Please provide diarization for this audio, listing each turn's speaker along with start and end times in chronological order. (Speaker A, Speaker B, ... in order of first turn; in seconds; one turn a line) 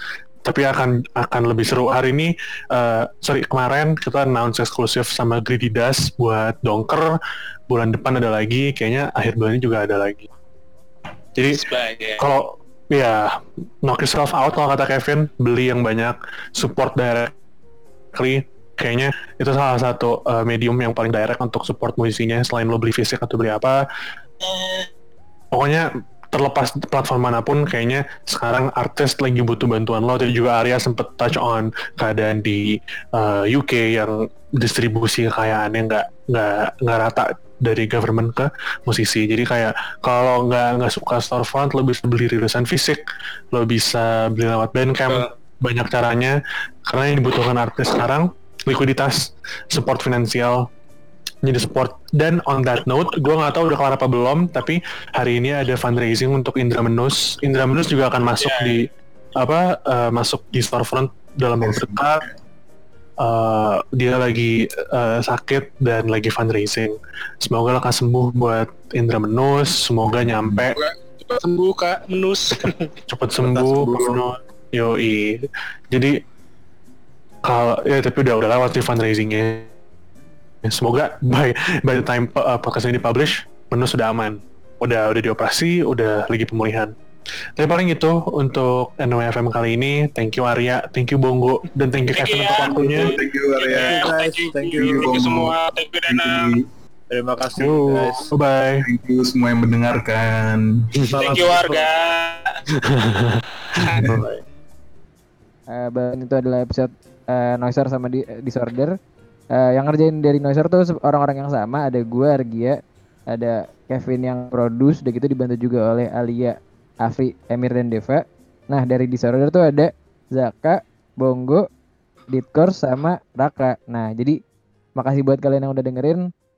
Speaker A: 0.4-7.1
Speaker A: 7.7-10.3
Speaker A: 11.3-11.6
Speaker B: 11.5-12.2
Speaker A: 12.2-17.3
Speaker A: 18.1-23.8
Speaker A: 25.5-43.0
Speaker A: 43.5-50.7
Speaker A: 51.4-58.9
Speaker B: 58.4-58.8
Speaker A: 59.4-62.2
Speaker C: 61.6-62.0
Speaker A: 63.2-70.8
Speaker C: 70.2-70.6
Speaker B: 70.7-72.9
Speaker A: 73.1-76.2
Speaker D: 73.4-74.2
Speaker A: 77.4-79.7
Speaker A: 80.7-86.9
Speaker A: 87.6-93.2
Speaker B: 92.2-96.6
Speaker C: 92.7-94.0
Speaker D: 93.7-95.2
Speaker C: 94.8-95.5
Speaker C: 96.1-96.7
Speaker D: 97.1-98.3
Speaker A: 97.6-98.9
Speaker C: 98.9-100.9
Speaker A: 101.0-101.4
Speaker B: 101.1-102.6
Speaker D: 101.1-101.9
Speaker A: 102.9-103.4
Speaker B: 103.7-104.2
Speaker A: 103.9-104.4
Speaker C: 104.0-104.2
Speaker E: 105.7-108.9
Speaker E: 109.6-112.8
Speaker E: 113.3-121.6
Speaker E: 122.3-124.4
Speaker E: 125.0-126.2